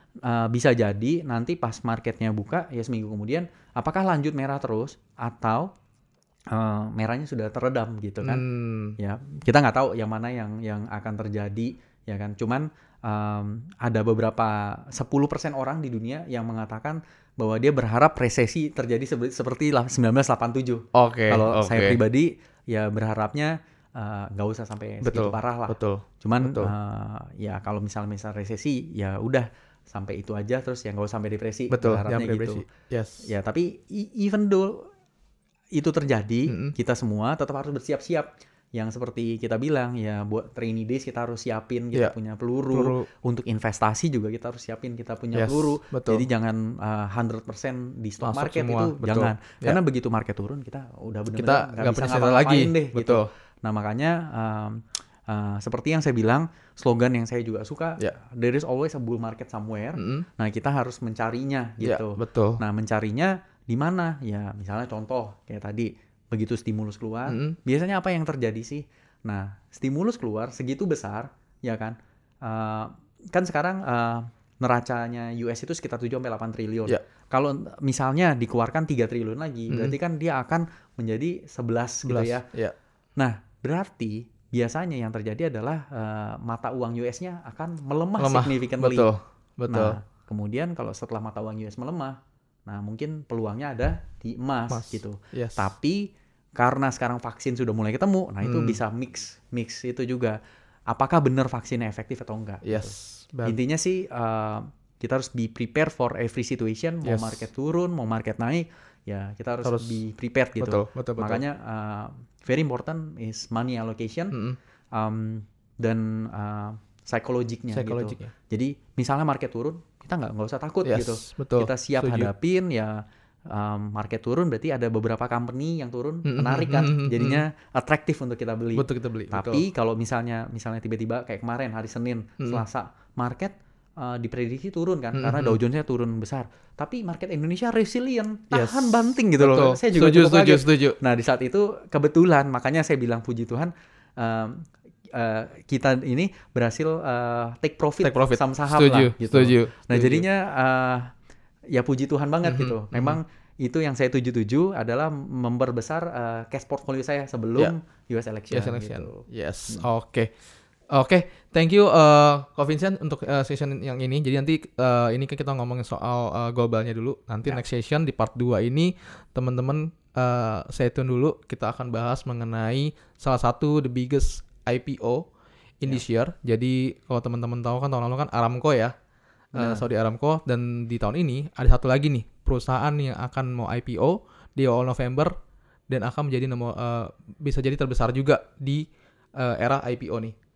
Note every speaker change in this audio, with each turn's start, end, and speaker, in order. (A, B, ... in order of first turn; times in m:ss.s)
0:00.3-0:05.7 A
0:06.5-0:08.4 A
0:08.2-0:09.0 B
0:09.0-0:32.6 A
0:21.0-0:22.0 B
0:25.0-0:26.7 B
0:31.7-0:33.3 B
0:33.2-0:34.9 A
0:35.7-1:22.5 A
0:36.5-0:36.8 B
0:42.7-0:43.1 B
0:45.3-0:46.3 B
0:48.2-0:49.8 B
0:51.3-0:53.3 B
1:00.0-1:00.2 B
1:01.8-1:02.6 B
1:07.3-1:07.6 B
1:19.7-1:20.0 B
1:22.0-1:22.7 B
1:23.2-1:29.1 A
1:28.2-1:30.0 B
1:29.7-1:40.4 A
1:34.7-1:35.7 B
1:38.4-1:38.8 B
1:40.9-1:54.4 A
1:42.6-1:43.6 B
1:47.0-1:47.4 B
1:49.6-1:50.0 B
1:50.6-1:51.4 B
1:54.3-1:54.6 B
1:54.9-2:31.1 A
1:57.7-1:58.3 B
2:00.8-2:02.3 B
2:06.2-2:07.4 B
2:08.8-2:09.6 B
2:12.4-2:12.6 B
2:15.1-2:15.6 B
2:18.5-2:21.0 B
2:28.0-2:30.3 B
2:31.7-2:39.9 A
2:32.4-2:33.2 B
2:38.5-2:40.3 B
2:40.9-2:55.2 B
2:55.8-2:58.9 B
2:59.6-2:59.9 A
2:59.6-3:05.3 B
3:05.9-3:08.9 B
3:09.4-3:10.3 B